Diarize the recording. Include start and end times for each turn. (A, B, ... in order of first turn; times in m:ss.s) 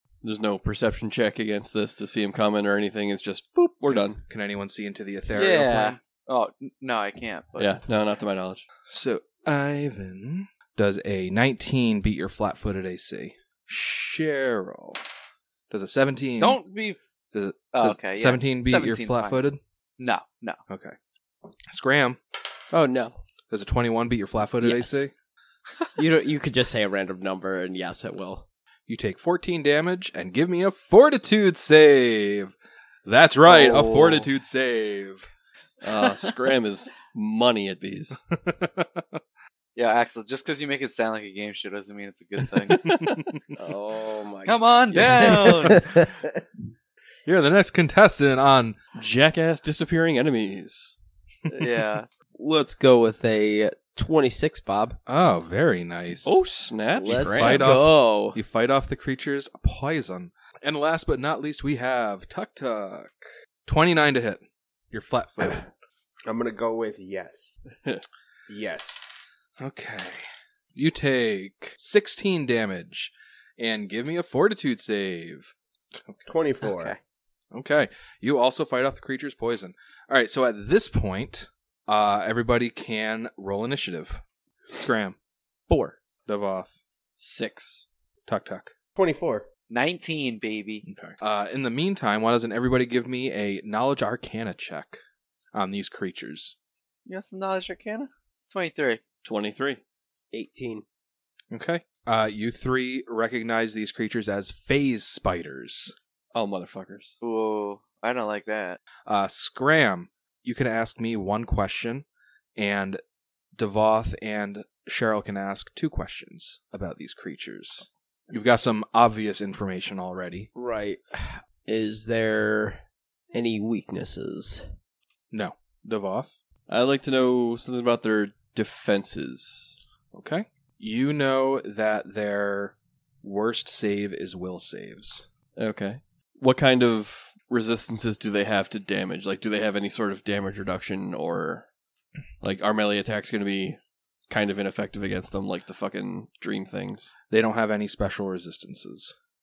0:00.2-0:04.2 A
0:03.9-0:06.0 B
0:05.3-0:07.8 C
0:07.6-0:08.6 A
0:08.9-0:15.0 B
0:15.7-0:16.6 B
0:16.4-0:17.0 C
0:17.3-0:19.6 B
0:17.7-0:19.4 C
0:20.0-0:20.6 C
0:20.7-0:21.0 B
0:21.7-0:22.2 B
0:22.7-0:23.2 D
0:23.5-0:25.1 B
0:24.6-0:25.0 D
0:26.0-0:28.5 D
0:28.9-0:32.5 B
0:33.0-0:35.3 B
0:33.4-0:34.2 D
0:35.8-0:38.2 A
0:38.3-0:39.2 B
0:39.8-0:42.9 C
0:42.7-0:43.4 B
0:43.6-0:46.2 D
0:44.5-0:45.8 C
0:47.2-0:48.8 B
0:49.0-0:50.9 A
0:51.5-0:52.1 C
0:52.3-0:55.0 D
0:55.1-0:56.4 B
0:56.2-0:57.8 A
0:57.0-0:58.4 D
0:57.0-1:03.1 B
1:03.6-1:05.7 B
1:06.2-1:07.6 E
1:08.5-1:09.0 E
1:09.6-1:16.3 B
1:16.3-1:17.0 E
1:16.6-1:17.0 C
1:17.5-1:25.2 B
1:25.7-1:26.0 D
1:26.2-1:26.8 B
1:27.2-1:27.9 A
1:28.3-1:28.7 B
1:29.0-1:29.5 E
1:29.7-1:30.8 C
1:30.8-1:35.0 B
1:35.5-1:36.6 B
1:37.0-1:39.0 C
1:39.2-1:39.8 A
1:40.3-1:40.8 D
1:41.5-1:45.9 B
1:46.3-1:47.2 A
1:47.2-1:48.8 C
1:49.0-1:52.0 B
1:52.6-1:53.0 B
1:53.5-2:00.5 B
2:00.5-2:02.8 D
2:03.3-2:04.7 D
2:05.3-2:06.4 B
2:06.7-2:09.8 A
2:10.1-2:15.3 B
2:15.6-2:21.7 A
2:22.4-2:27.1 A
2:27.3-2:29.1 B